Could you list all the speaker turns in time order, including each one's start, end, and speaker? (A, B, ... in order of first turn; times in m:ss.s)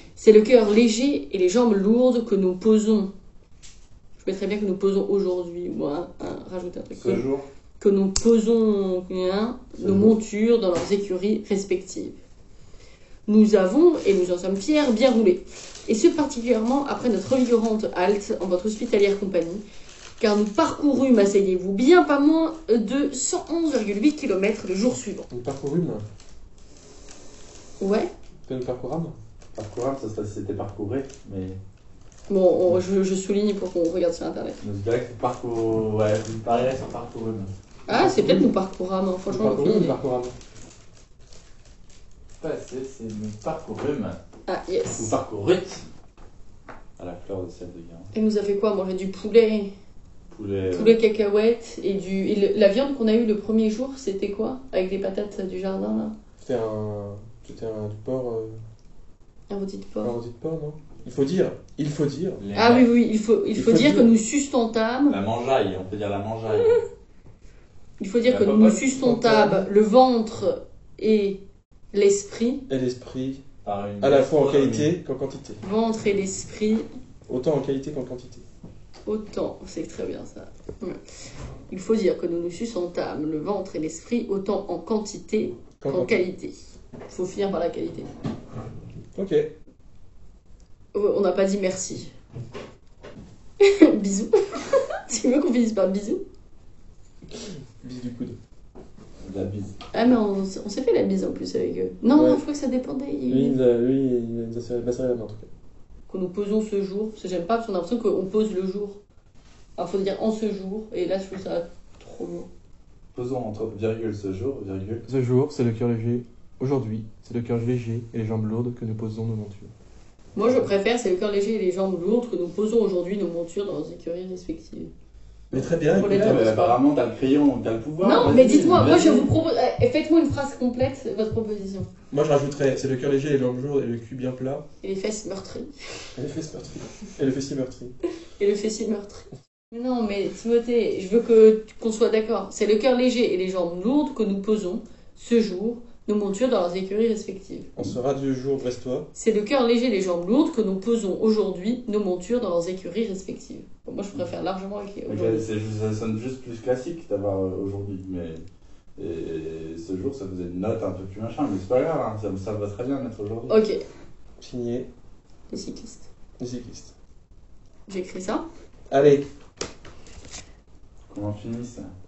0:00.2-0:03.1 A
0:04.2-0:07.2 A
0:06.9-0:07.5 B
0:07.8-0:12.2 A
0:09.8-0:10.2 B
0:13.3-0:19.6 A
0:20.2-0:25.3 A
0:25.3-0:26.0 C
0:27.8-0:28.1 A
0:28.5-0:29.2 C
0:29.6-0:31.6 B
0:32.3-0:34.6 A
0:34.6-0:37.5 B
0:37.9-0:40.0 A
0:37.9-0:38.5 C
0:39.3-0:40.4 C
0:42.4-0:44.2 B
0:44.5-0:45.2 A
0:44.9-0:45.8 B
0:47.0-0:48.1 B
0:48.1-0:49.7 A
0:50.3-0:51.0 B
0:50.7-0:56.2 A
0:56.4-0:58.6 C
0:59.5-1:00.2 A
1:00.0-1:02.4 C
1:02.4-1:02.9 B
1:02.6-1:05.2 A
1:03.6-1:04.1 C
1:05.1-1:06.8 B
1:08.0-1:11.4 A
1:08.2-1:08.9 B
1:09.0-1:09.7 C
1:11.9-1:12.6 A
1:12.7-1:13.4 C
1:13.6-1:14.9 B
1:14.0-1:15.6 C
1:15.6-1:16.9 A
1:17.3-1:18.4 C
1:19.1-1:21.0 A
1:21.7-1:26.6 A
1:25.8-1:26.2 C
1:27.1-1:28.1 A
1:29.2-1:29.5 C
1:30.9-1:32.1 A
1:33.6-1:36.2 A
1:37.3-1:38.4 C
1:39.2-1:39.8 B
1:39.9-1:43.6 A
1:42.1-1:42.4 C
1:43.3-1:45.5 C
1:46.1-1:49.0 A
1:49.8-1:52.5 A
1:53.1-1:55.0 B
1:55.1-1:59.7 C
2:00.4-2:04.9 A
2:05.5-2:06.5 C
2:05.5-2:09.3 B
2:05.9-2:06.8 A
2:08.0-2:11.9 A
2:12.1-2:14.6 C
2:14.8-2:15.7 A
2:16.2-2:18.0 C
2:18.4-2:27.7 A
2:27.8-2:29.1 C
2:29.1-2:35.5 A
2:35.1-2:38.4 B
2:39.0-2:43.6 B
2:43.5-2:43.8 A
2:44.4-2:44.9 C
2:45.5-2:46.1 A
2:46.4-2:46.9 C
2:47.9-2:48.4 A
2:48.9-2:49.3 C
2:51.1-2:51.9 B